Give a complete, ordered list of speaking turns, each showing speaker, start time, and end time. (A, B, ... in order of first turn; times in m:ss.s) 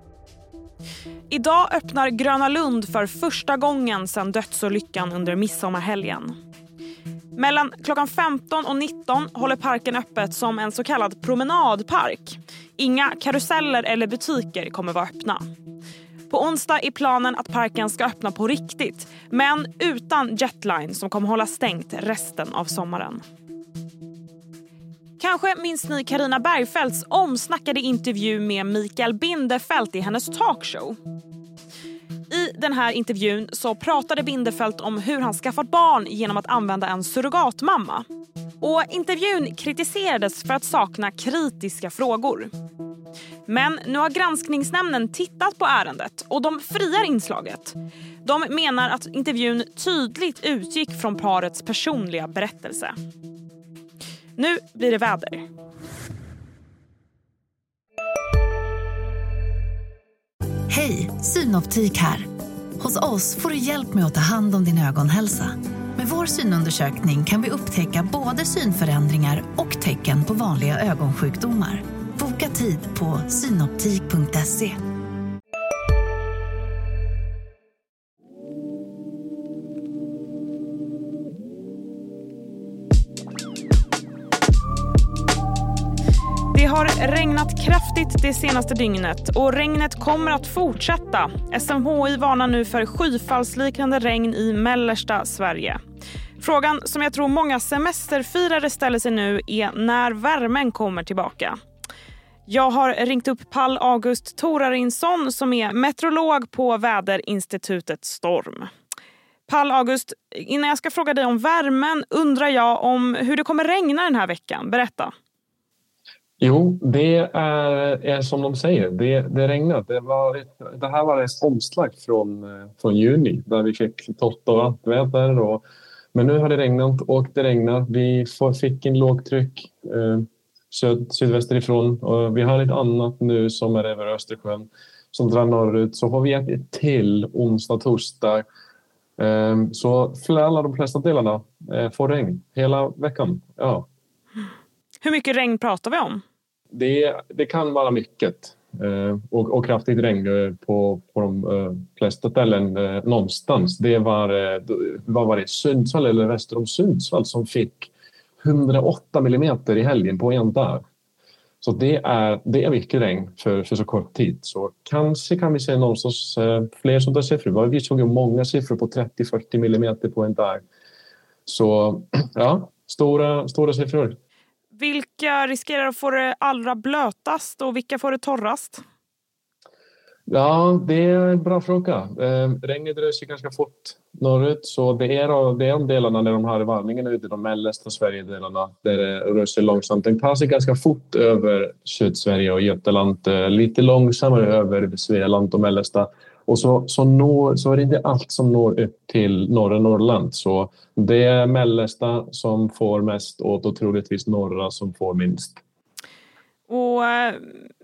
0:01.3-0:06.4 A
0:07.4-0:15.4 A
0:16.3-0:23.2 A
0:25.2-0:31.0 A
0:32.3-0:38.1 A
0:38.6-0:42.5 A
0:43.5-0:52.9 A
0:54.4-0:55.4 A
1:00.7-1:02.3 B
1:02.8-1:14.8 B
1:26.5-1:35.8 A
1:36.4-1:41.6 A
1:42.5-1:48.7 A
1:49.5-1:55.1 A
1:56.4-2:05.6 C
2:06.1-2:18.4 C
2:19.2-2:23.9 C
2:25.0-2:26.2 A
2:26.7-2:37.9 C
2:38.4-2:40.8 C
2:41.6-2:50.6 C
2:51.5-2:54.2 C
2:54.8-2:58.8 A
3:00.3-3:25.6 C
3:26.7-3:27.5 A